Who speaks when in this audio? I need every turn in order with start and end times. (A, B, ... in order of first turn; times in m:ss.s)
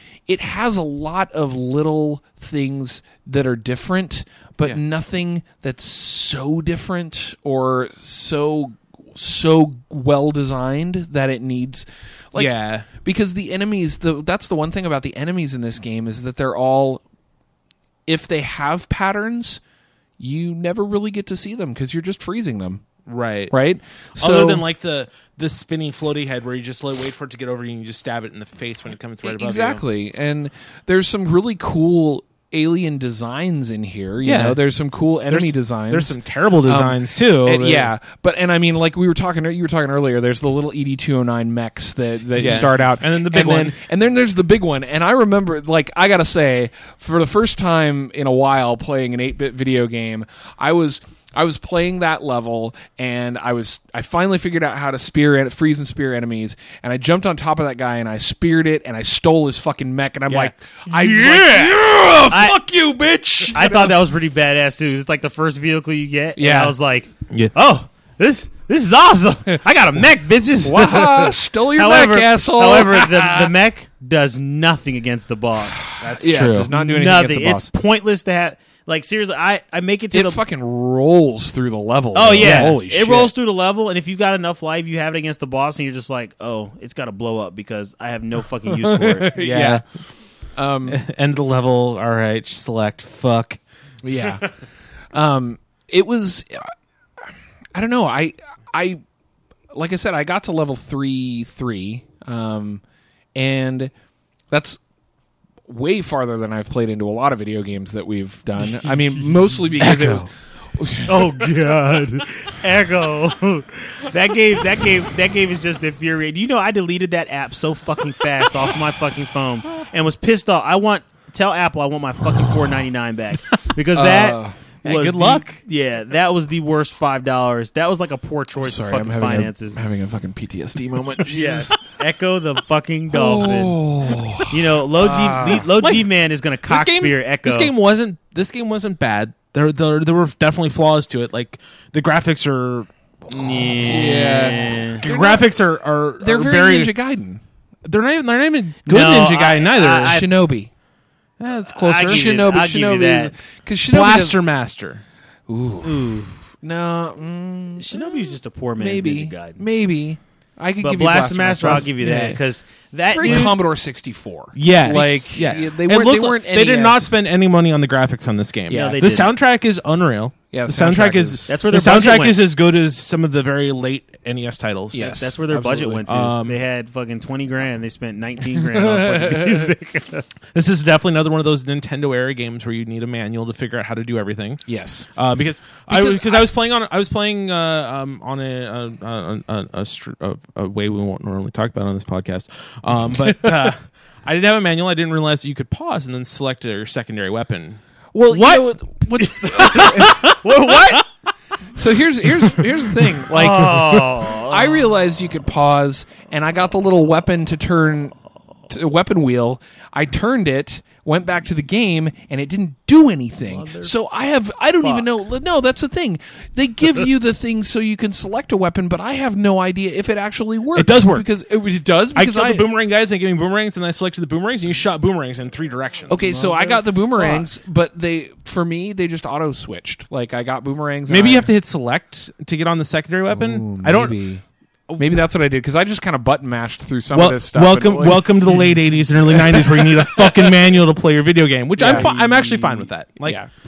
0:00.3-0:17.0 A
0:12.3-0:12.9 B
0:18.1-0:19.6 A
0:20.2-0:22.8 A
0:23.0-0:23.5 B
0:23.5-0:24.6 A
0:24.1-0:29.8 B
0:29.2-1:04.0 A
0:34.2-0:34.6 B
0:35.3-0:37.9 B
0:42.4-0:43.8 B
1:00.3-1:02.6 C
1:03.5-1:20.4 C
1:06.4-1:06.7 A
1:10.6-1:13.5 A
1:16.1-1:17.7 A
1:20.1-1:23.3 A
1:22.1-1:29.3 C
1:22.4-1:22.8 B
1:28.7-1:29.8 A
1:29.4-1:29.8 B
1:30.6-1:31.0 A
1:30.9-1:33.6 B
1:34.0-1:34.4 A
1:35.1-1:36.7 A
1:37.2-1:39.0 A
1:39.7-1:42.8 A
1:43.3-1:43.9 A
1:44.5-1:44.8 A
1:45.7-1:51.4 A
1:49.8-1:50.2 B
1:51.0-2:09.8 C
2:03.9-2:04.5 A
2:04.8-2:05.6 B
2:08.6-2:11.8 A
2:11.3-2:17.7 C
2:13.1-2:15.7 A
2:15.6-2:16.0 B
2:16.7-2:23.8 B
2:23.3-2:25.0 C
2:23.8-2:25.5 A
2:25.0-2:26.9 B
2:26.2-2:27.4 A
2:27.8-2:30.2 B
2:28.8-2:30.3 C
2:30.0-2:30.7 A
2:31.4-2:32.2 B
2:31.7-2:33.3 C
2:32.0-2:34.4 A
2:33.9-2:35.0 B
2:35.5-2:42.3 A
2:35.8-2:36.3 C
2:37.8-2:39.6 C
2:40.8-2:43.6 C
2:42.0-2:42.4 B
2:43.1-2:47.1 A
2:43.2-2:43.6 B
2:44.5-2:55.2 B
2:48.7-2:49.0 A
2:48.7-2:49.3 C
2:50.5-2:51.5 A
2:51.5-2:52.4 C
2:54.9-2:56.3 A
2:54.9-3:00.2 C
2:56.1-2:56.6 B
2:58.6-2:59.7 A
3:00.5-3:04.6 B
3:04.6-3:05.1 A
3:05.1-3:17.8 B
3:05.9-3:06.5 A
3:13.2-3:13.7 A
3:18.1-3:20.3 A
3:18.3-3:18.6 C
3:19.2-3:21.0 C
3:21.7-3:28.1 A
3:23.3-3:24.9 C
3:28.7-3:42.7 A
3:33.5-3:33.9 C
3:40.7-3:41.2 B
3:42.1-3:46.4 B
3:46.1-3:51.5 A
3:46.2-3:47.4 C
3:51.1-3:54.2 B
3:53.3-3:54.4 A
3:55.0-3:58.7 A
3:57.1-4:03.4 B
4:01.8-4:02.1 A
4:01.8-4:02.9 C